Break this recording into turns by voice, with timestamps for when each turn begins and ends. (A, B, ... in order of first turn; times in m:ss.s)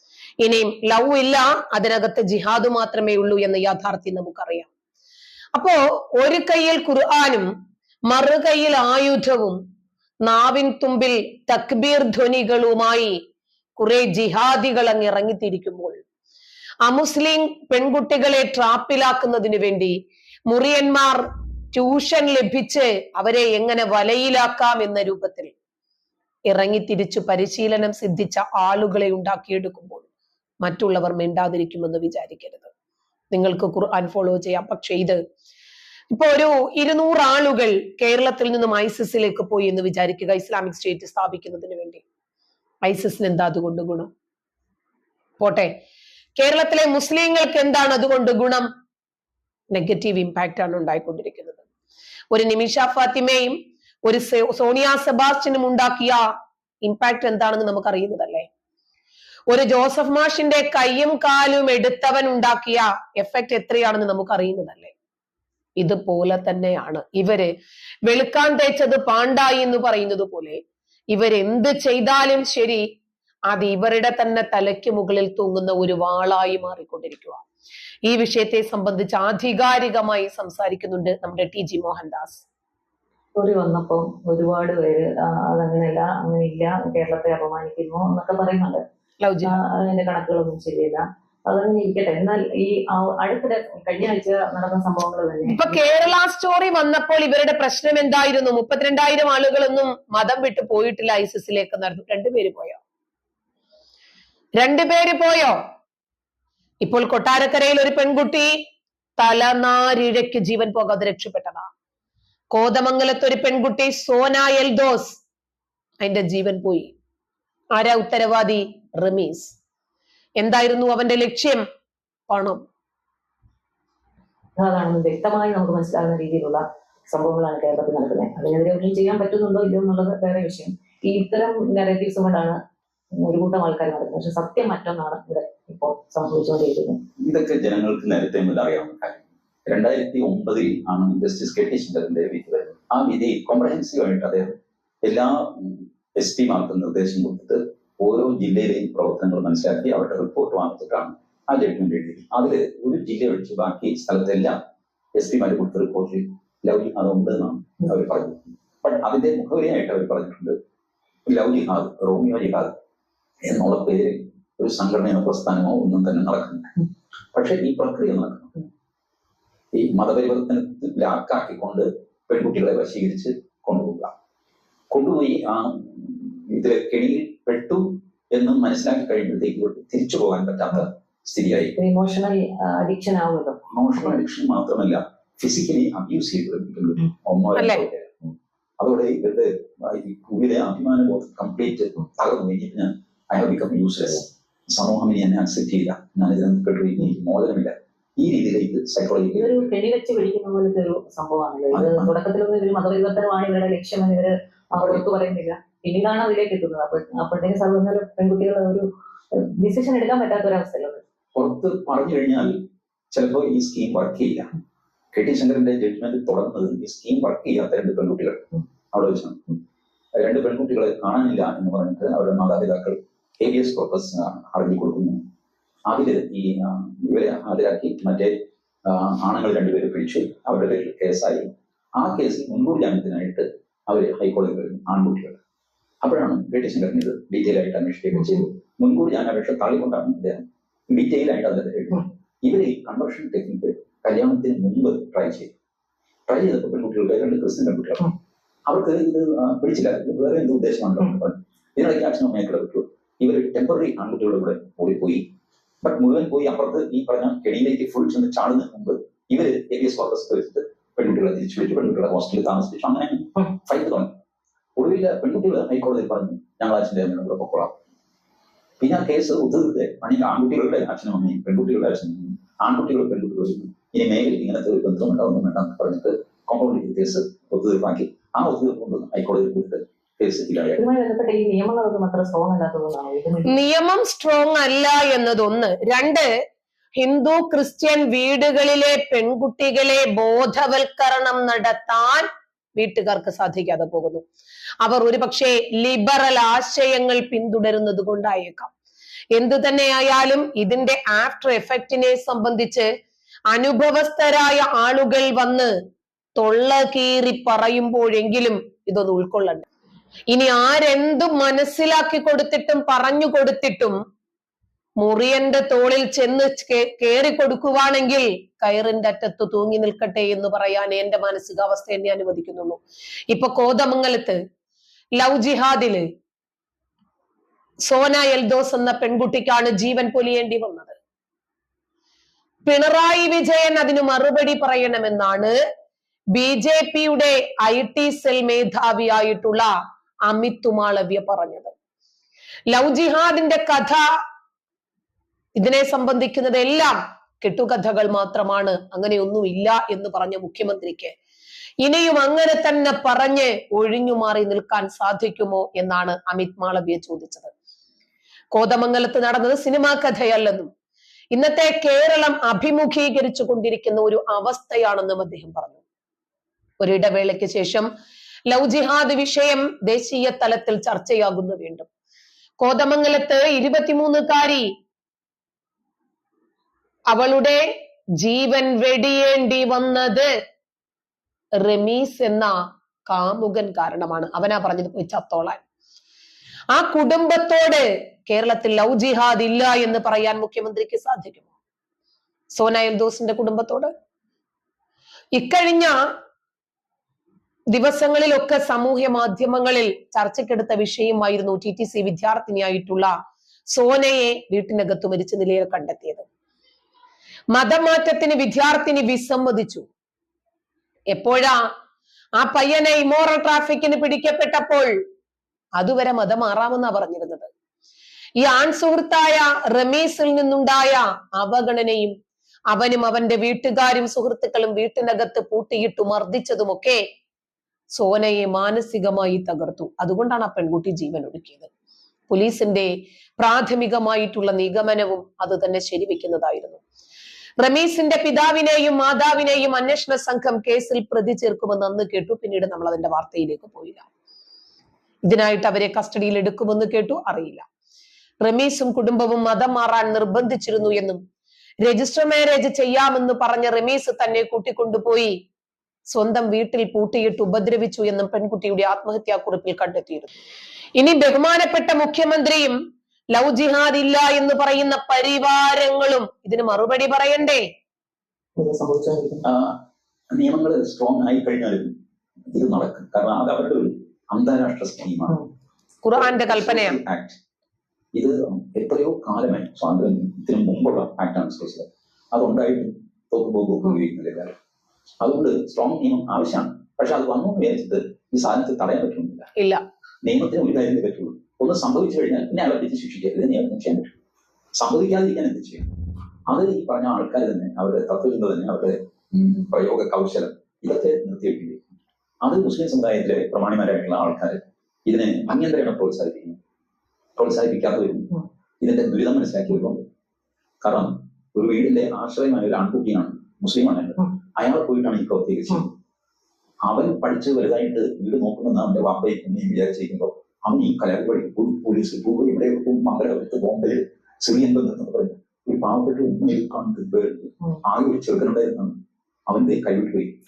0:00.4-0:04.7 A
0:05.6-0:07.5 A
0:08.1-0:09.6 A
0:10.2-0:13.2 A
0:13.8-0:16.0 A
0:16.8-0:19.9 A
0:20.5-0:25.5 A
0:26.5-0:30.1 A
0:30.6-0:32.7 A
0:33.3-0:35.2 A
0:36.1-0:42.0 A
0:42.8-0:44.1 A
0:45.4-0:45.7 A
0:46.4-0:48.7 A
0:49.7-0:51.6 A
0:52.3-0:56.2 A
0:56.8-0:58.5 A
0:59.5-1:04.9 A
1:05.8-1:07.5 A
1:08.1-1:10.6 A
1:11.1-1:12.8 A
1:13.5-1:17.4 A
1:18.1-1:22.4 A
1:23.4-1:28.8 B
1:29.2-1:29.6 A
1:29.4-1:35.8 B
1:35.5-1:42.8 A
1:44.6-1:45.6 A
1:46.8-1:48.5 A
1:49.2-1:51.7 A
1:52.5-1:55.2 A
1:56.0-1:56.9 A
1:57.7-1:59.6 A
2:00.4-2:01.6 A
2:02.3-2:02.6 A
2:04.6-2:12.6 B
2:13.2-2:17.0 B
2:17.2-2:34.6 C
2:35.2-2:40.6 C
2:41.3-2:42.8 C
2:43.4-2:46.8 C
2:47.3-2:48.6 C
2:49.7-2:54.1 C
2:54.9-3:01.8 C
3:01.8-3:03.6 B
3:03.7-3:08.2 C
3:07.6-3:07.8 A
3:08.8-3:19.7 C
3:19.4-3:31.0 B
3:21.7-3:22.1 C
3:31.4-3:32.6 C
3:33.1-3:34.5 C
3:35.1-3:39.5 C
3:40.2-3:45.2 C
3:45.9-3:48.3 C
3:48.8-3:55.4 C
3:56.0-4:05.5 C
4:06.3-4:08.1 C
4:08.7-4:15.2 C
4:15.8-4:24.1 C
4:24.8-4:27.7 C
4:28.8-4:40.8 C
4:40.8-4:43.5 B
4:43.5-4:46.3 A
4:47.0-4:52.3 A
4:52.8-4:54.2 A
4:54.8-4:58.7 A
4:59.4-5:02.9 A
5:03.5-5:05.7 A
5:06.4-5:09.7 A
5:10.3-5:14.0 A
5:15.0-5:24.4 A
5:25.2-5:26.0 A
5:27.9-5:31.0 A
5:32.7-5:35.5 A
5:36.3-5:39.7 A
5:40.3-5:41.7 A
5:42.7-5:44.0 A
5:45.6-5:51.1 A
5:51.8-5:57.5 A
5:58.5-6:00.7 A
6:01.3-6:05.8 A
6:06.8-6:07.9 A
6:08.5-6:11.9 A
6:12.6-6:14.7 A
6:17.1-6:17.6 A
6:18.2-6:20.3 A
6:21.6-6:22.5 A
6:23.1-6:25.6 A
6:26.7-6:31.5 A
6:32.6-6:33.9 A
6:35.4-6:36.0 A
6:37.7-6:43.1 A
6:43.7-6:46.3 A
6:47.5-6:49.9 A
6:51.1-6:51.6 A
6:52.4-6:54.9 A
6:55.8-6:57.5 A
6:58.4-7:02.2 A
7:02.7-7:07.0 A
7:07.9-7:11.7 A
7:12.3-7:16.8 A
7:17.6-7:24.1 A
7:25.3-7:27.6 A
7:28.4-7:31.2 A
7:31.8-7:35.3 A
7:36.1-7:40.3 A
7:41.0-7:42.8 A
7:43.3-7:47.7 A
7:48.6-7:49.4 B
7:49.4-7:49.8 C
7:50.3-7:51.9 C
7:52.5-7:55.4 C
7:56.0-7:57.0 A
7:56.2-7:57.4 C
7:58.1-8:04.5 C
8:05.2-8:09.5 C
8:09.6-8:09.8 A
8:10.2-8:14.2 C
8:14.8-8:15.9 C
8:16.5-8:26.6 C
8:27.4-8:30.0 C
8:30.8-8:35.9 C
8:36.8-8:49.0 C
8:49.5-8:50.3 C